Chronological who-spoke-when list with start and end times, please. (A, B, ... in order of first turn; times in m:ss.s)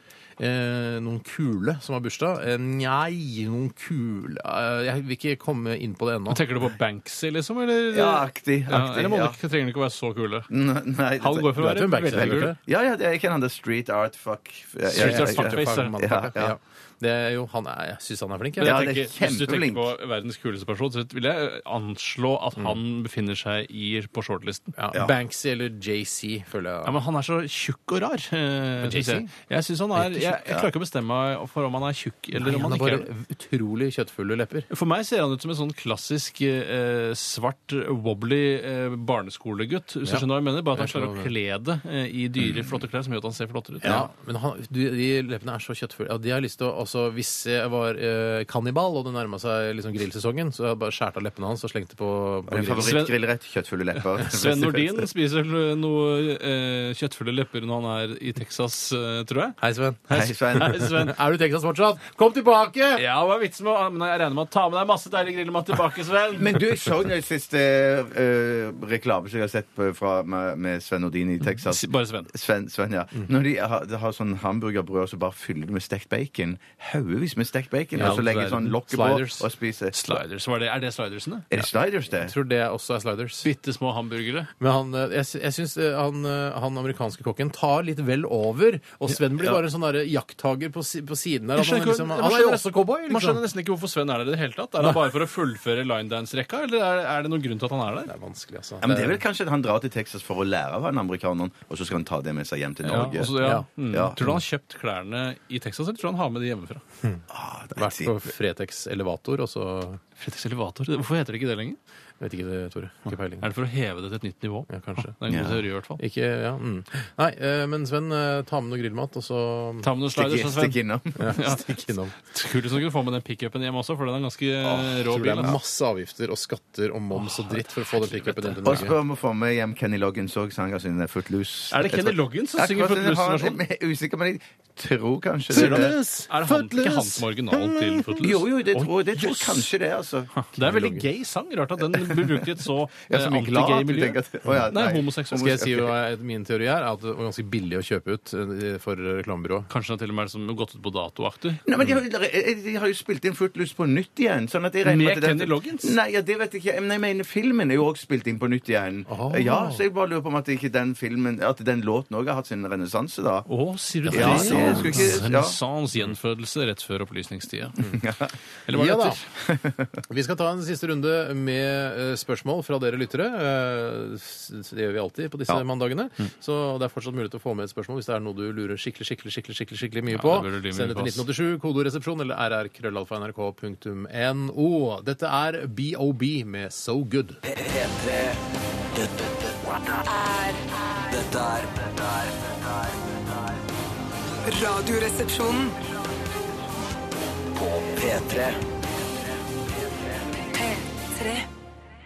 0:00.4-0:06.4 A
0:06.3-0:10.5 B
0:07.9-0:09.4 C
0:10.5-0:16.5 C
0:11.2-0:12.5 B
0:11.6-0:12.6 A
0:14.9-0:16.0 B
0:14.9-0:18.8 A
0:18.6-0:24.7 B
0:18.6-0:19.9 C
0:24.8-0:26.9 A
0:26.8-0:33.0 B
0:28.8-0:29.3 A
0:30.0-0:30.3 A
0:32.3-0:34.7 A
0:34.7-0:44.0 B
0:40.0-0:41.3 A
0:43.8-0:53.0 A
0:52.5-0:55.0 C
0:52.8-0:53.2 B
0:54.2-0:59.6 B
0:59.6-1:00.0 A
1:00.1-1:01.2 B
1:00.1-1:00.9 C
1:00.6-1:03.0 A
1:02.9-1:06.6 B
1:06.3-1:20.2 C
1:11.6-1:12.3 B
1:18.0-1:18.5 B
1:18.0-1:19.4 A
1:19.9-1:21.5 B
1:21.5-1:22.3 C
1:22.2-1:23.5 A
1:23.4-1:24.5 B
1:24.6-1:33.4 A
1:31.6-1:38.1 B
1:38.1-1:39.2 A
1:38.8-1:43.4 C
1:42.8-1:46.8 B
1:43.4-1:43.6 A
1:43.9-1:44.2 C
1:44.2-1:44.4 A
1:47.3-1:48.2 C
1:47.7-1:50.0 A
1:50.2-1:51.8 B
1:52.2-1:53.4 A
1:53.4-1:56.0 B
1:54.7-1:55.1 A
1:55.2-1:55.6 C
1:56.0-1:59.9 A
1:59.8-2:05.6 B
2:00.1-2:01.4 C
2:01.2-2:02.1 A
2:04.6-2:05.6 C
2:05.1-2:09.0 A
2:07.1-2:08.9 B
2:08.6-2:15.9 C
2:11.7-2:13.6 B
2:15.5-2:18.2 A
2:15.5-2:19.7 B
2:18.2-2:20.3 C
2:20.4-2:25.6 B
2:20.6-2:21.0 A
2:22.0-2:22.3 C
2:23.1-2:25.9 C
2:25.3-2:29.7 A
2:29.7-2:31.6 B
2:31.6-2:43.5 C
2:34.8-2:36.0 B
2:39.1-2:39.8 A
2:43.5-2:47.8 B
2:44.1-2:45.1 A
2:44.1-2:45.6 C
2:47.8-2:48.3 C
2:48.7-2:49.3 B
2:48.7-2:49.2 A
2:49.4-2:49.9 C
2:50.1-3:07.4 A
3:00.1-3:01.2 B
3:07.4-3:08.4 D
3:08.9-3:10.1 D
3:10.1-3:10.6 E
3:11.1-3:13.6 D
3:14.4-3:15.8 E
3:17.5-3:18.6 D
3:20.5-3:21.5 E